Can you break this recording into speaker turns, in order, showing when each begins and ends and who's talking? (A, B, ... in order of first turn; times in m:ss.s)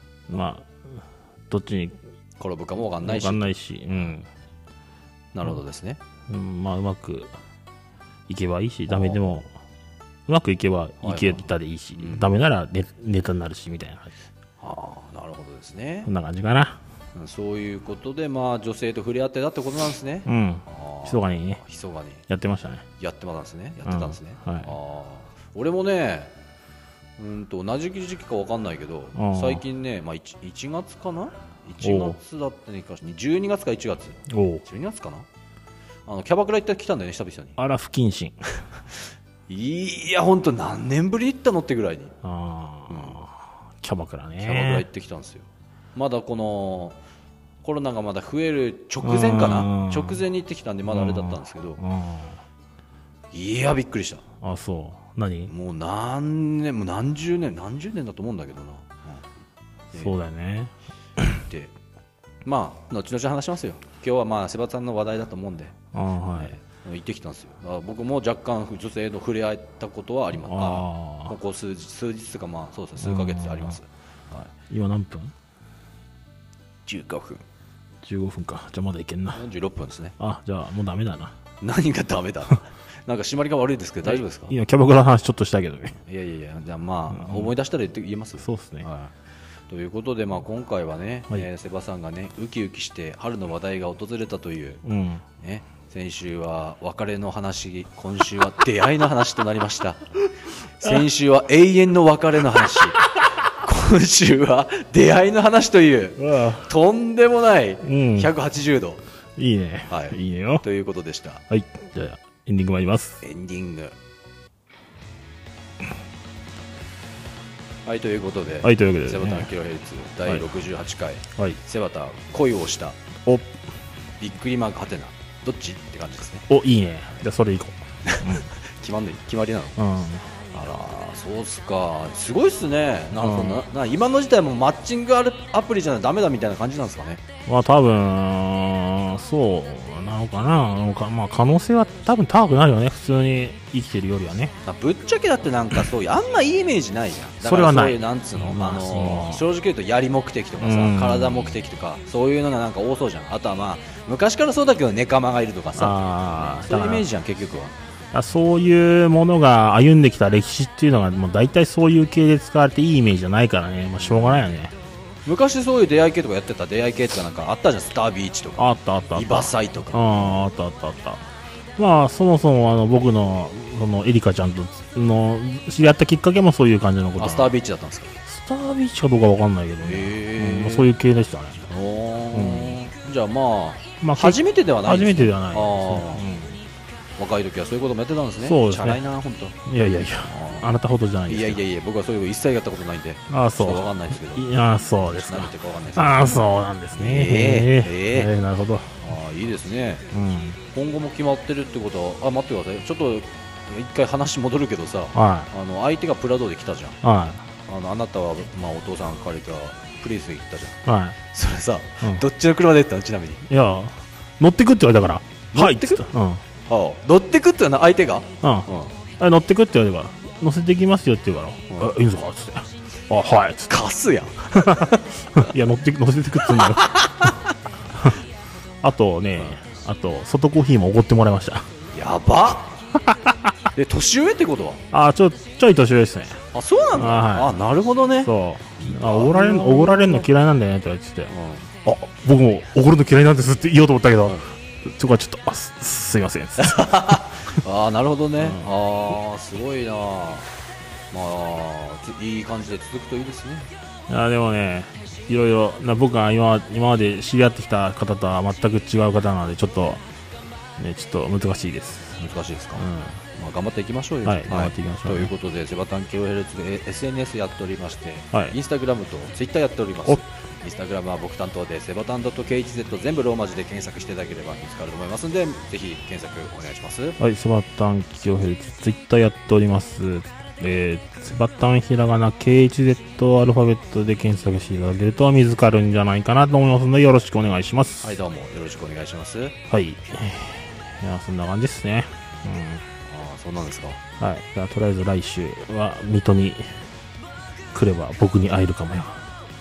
0:00.3-0:00.7 A
0:01.5-0:02.0 A
0:02.4-0:04.1 B
0:03.0-0:04.3 A
0:05.3-0:06.0 B
0:06.3-0:07.3 A
0:08.3-0:09.5 A
0:08.9-0:09.4 B
0:10.3-0:14.1 A
0:11.0-0:12.4 B
0:14.6-0:16.1 B
0:16.1-0:16.8 A
0:17.2-0:22.2 B
0:20.3-0:21.6 A
0:22.3-0:22.8 A
0:23.0-0:26.3 B
0:23.9-0:24.7 A
0:27.2-0:35.3 B
0:29.2-0:29.6 A
0:31.8-0:32.2 A
0:34.3-0:34.6 A
0:36.1-0:37.6 B
0:37.6-0:38.4 A
0:39.5-0:42.1 B
0:42.2-0:44.9 A
0:42.9-0:43.2 B
0:44.4-0:47.0 B
0:47.6-0:51.8 B
0:49.0-0:50.2 A
0:50.9-0:52.4 A
0:53.3-0:54.2 B
0:54.4-0:55.5 A
0:55.5-0:59.2 B
0:59.9-1:01.4 A
1:01.4-1:01.7 B
1:02.5-1:05.8 B
1:05.9-1:06.6 A
1:06.4-1:14.5 B
1:10.4-1:11.4 A
1:13.0-1:13.8 A
1:14.7-1:15.3 A
1:16.9-1:17.4 B
1:18.0-1:19.4 A
1:19.3-1:20.2 B
1:20.2-1:21.4 A
1:21.6-1:24.6 B
1:24.0-1:26.0 A
1:26.1-1:29.1 B
1:27.1-1:27.5 A
1:28.4-1:28.9 A
1:29.7-1:34.8 B
1:34.8-1:35.2 A
1:35.4-1:40.0 B
1:40.8-1:43.0 B
1:43.5-1:49.0 B
1:46.2-1:46.7 A
1:47.8-1:48.3 A
1:49.4-1:50.6 A
1:49.9-1:51.4 B
1:51.5-1:53.2 A
1:53.2-1:54.0 B
1:57.9-2:03.0 B
1:58.6-1:59.5 A
2:03.3-2:03.6 A
2:04.2-2:06.5 B
2:06.5-2:08.5 A
2:08.1-2:09.8 B
2:09.8-2:10.2 A
2:10.5-2:17.2 B
2:13.1-2:13.6 A
2:17.5-2:24.6 A
2:24.6-2:37.8 B
2:27.4-2:29.5 A
2:30.6-2:31.6 A
2:35.8-2:37.1 A
2:38.1-2:44.7 A
2:44.0-2:44.4 B
2:45.3-2:50.5 B
2:48.6-2:51.2 A
2:51.8-2:57.5 A
2:57.2-2:58.2 B
2:58.3-3:01.7 A
2:59.8-3:00.9 B
3:01.7-3:06.3 B
3:02.3-3:02.8 A
3:04.0-3:06.6 A
3:07.2-3:09.6 B
3:08.4-3:09.0 A
3:09.6-3:11.6 A
3:10.2-3:14.5 B
3:13.3-3:19.0 A
3:15.1-3:16.4 B
3:16.9-3:18.3 B
3:19.0-3:20.0 B
3:20.1-3:20.6 A
3:20.7-3:27.0 B
3:25.2-3:25.5 A
3:27.0-3:27.4 A
3:27.7-3:30.8 B
3:30.8-3:31.2 A
3:31.3-3:33.4 B
3:33.5-3:36.4 A
3:35.5-3:36.1 B
3:36.7-3:38.9 B
3:38.4-3:38.7 A
3:39.2-3:43.8 A
3:43.7-3:45.5 B
3:44.6-3:47.0 A
3:46.5-3:47.5 B
3:48.8-3:51.7 A
3:51.9-3:52.7 B
3:53.0-3:53.5 A
3:53.7-3:54.8 B
3:54.9-3:56.4 A
3:56.5-4:00.3 B
3:57.0-3:57.5 A
3:58.2-4:01.3 A
4:01.3-4:01.7 B
4:01.8-4:07.2 A
4:06.6-4:10.5 B
4:08.4-4:08.7 A
4:11.1-4:13.7 B
4:14.1-4:20.0 A
4:20.8-4:22.2 A
4:22.2-4:37.2 B
4:22.8-4:23.2 A
4:24.2-4:25.3 A
4:37.2-4:48.1 A
4:48.0-4:49.6 B
4:49.7-4:52.8 A
4:53.1-4:54.0 B
4:54.2-4:56.8 A
4:57.7-4:59.3 A